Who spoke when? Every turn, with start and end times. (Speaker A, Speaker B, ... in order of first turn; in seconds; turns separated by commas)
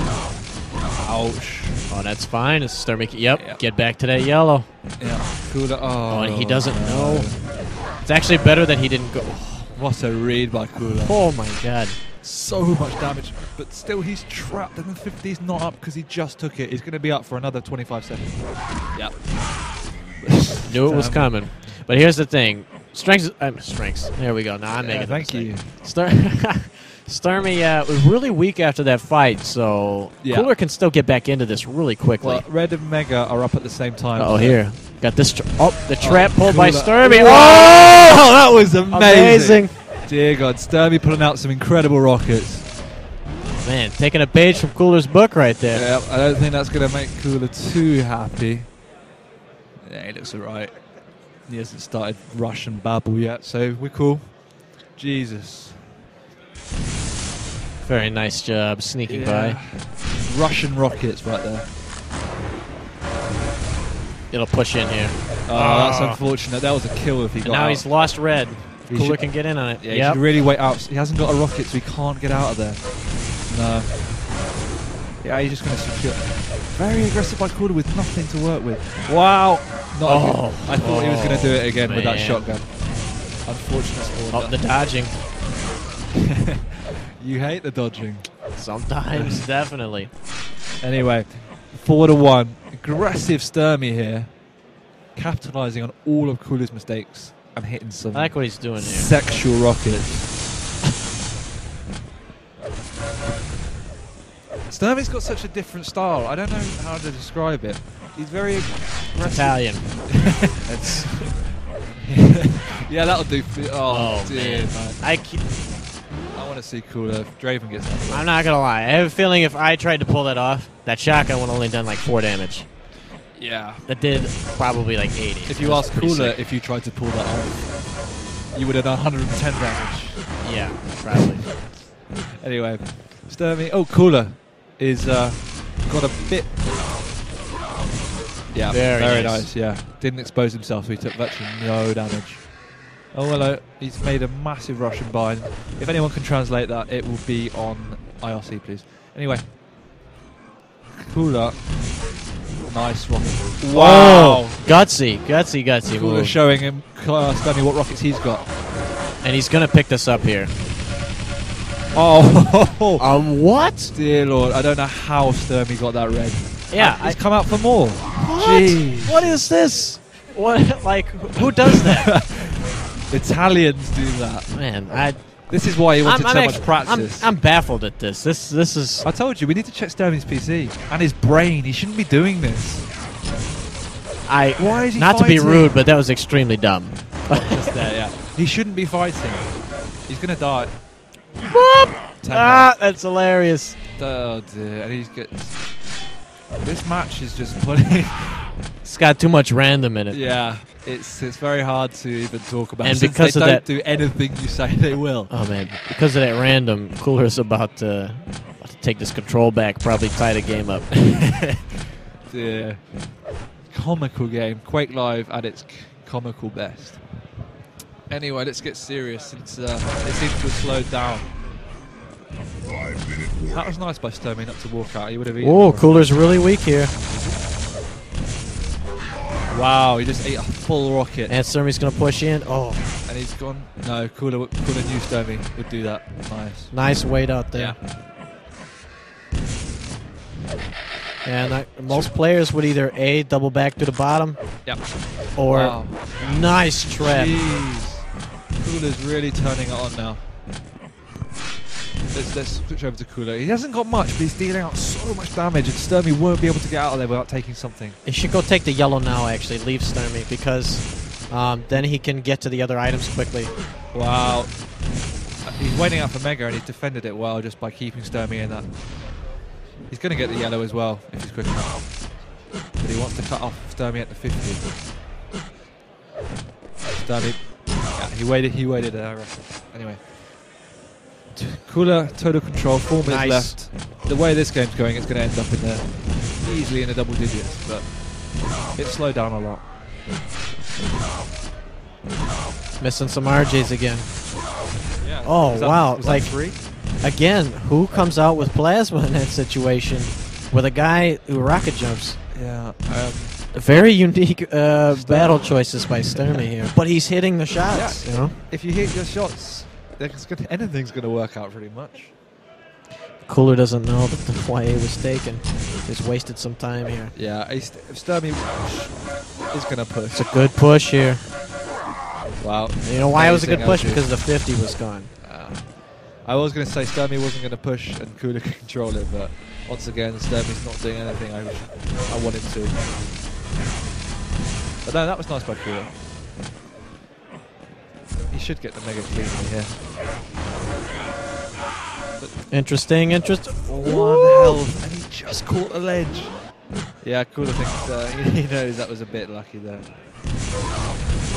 Speaker A: 0.9-1.8, Speaker B: 1.9-4.7, Speaker A: 3.3-3.6, Speaker A: 5.0-7.4, Speaker B: 6.1-9.8, Speaker A: 9.7-11.3, Speaker B: 11.0-12.0, Speaker A: 12.2-21.5, Speaker B: 20.7-32.4, Speaker A: 24.8-25.7, Speaker A: 30.2-30.5, Speaker A: 32.2-34.6, Speaker B: 34.2-38.2, Speaker A: 36.0-42.7, Speaker B: 38.9-39.7, Speaker B: 43.6-45.9, Speaker A: 45.7-48.7, Speaker A: 49.8-55.9, Speaker B: 57.8-59.6, Speaker A: 59.1-61.6, Speaker B: 64.3-66.2, Speaker A: 65.5-67.9, Speaker B: 67.4-70.2, Speaker A: 68.9-74.0, Speaker A: 75.2-84.6, Speaker B: 80.0-82.6, Speaker B: 84.3-85.2, Speaker A: 87.2-88.6, Speaker B: 88.6-90.1, Speaker A: 89.1-89.5, Speaker A: 90.8-94.6, Speaker A: 95.1-100.4, Speaker B: 98.1-99.2, Speaker A: 104.7-115.0, Speaker B: 109.3-110.4, Speaker B: 113.9-115.5, Speaker A: 116.3-118.3, Speaker B: 118.1-122.7, Speaker A: 123.3-123.8, Speaker B: 123.9-126.4, Speaker A: 125.5-130.4, Speaker B: 130.4-131.6, Speaker A: 132.4-136.5, Speaker A: 138.5-142.6, Speaker B: 138.7-139.6, Speaker A: 143.1-149.5, Speaker A: 151.0-151.9, Speaker A: 152.6-154.6, Speaker B: 153.7-156.4, Speaker A: 156.0-158.5, Speaker B: 159.2-160.5, Speaker A: 161.9-163.1, Speaker B: 163.0-163.9, Speaker A: 163.9-169.4, Speaker B: 166.7-167.4, Speaker B: 168.2-172.3, Speaker A: 171.7-177.3, Speaker B: 174.5-179.1, Speaker A: 179.0-182.9, Speaker B: 184.2-187.9, Speaker A: 184.6-185.7, Speaker A: 187.4-190.7, Speaker B: 191.5-193.8, Speaker A: 192.2-192.7, Speaker A: 194.0-195.9, Speaker A: 196.6-198.6, Speaker B: 198.8-200.3, Speaker A: 200.1-205.4, Speaker B: 202.8-203.6, Speaker B: 205.3-211.1, Speaker A: 212.3-217.1, Speaker A: 218.1-221.3, Speaker A: 223.5-226.2, Speaker B: 225.4-226.9, Speaker A: 227.1-227.4, Speaker A: 229.5-231.3, Speaker B: 231.3-232.8, Speaker A: 233.1-236.7, Speaker B: 236.7-237.8, Speaker A: 237.5-237.8, Speaker B: 241.2-247.4, Speaker A: 241.9-242.2, Speaker A: 244.6-246.2, Speaker A: 247.0-250.2, Speaker A: 252.1-258.0, Speaker B: 258.1-263.6, Speaker A: 263.9-268.8, Speaker A: 269.9-272.1, Speaker A: 272.8-274.7, Speaker A: 276.9-280.5, Speaker A: 281.3-289.7, Speaker B: 283.0-283.6, Speaker B: 292.8-294.1, Speaker A: 295.0-296.6, Speaker B: 295.2-302.2, Speaker A: 302.3-303.4, Speaker B: 303.5-308.4, Speaker A: 304.9-305.9, Speaker A: 307.7-312.1, Speaker B: 313.2-317.1, Speaker A: 317.1-320.3, Speaker B: 320.1-321.2, Speaker A: 322.4-324.5, Speaker B: 322.9-325.1, Speaker A: 325.2-332.8, Speaker A: 334.8-336.0, Speaker A: 338.3-339.8, Speaker B: 342.5-344.6, Speaker A: 343.7-346.5, Speaker A: 347.0-349.9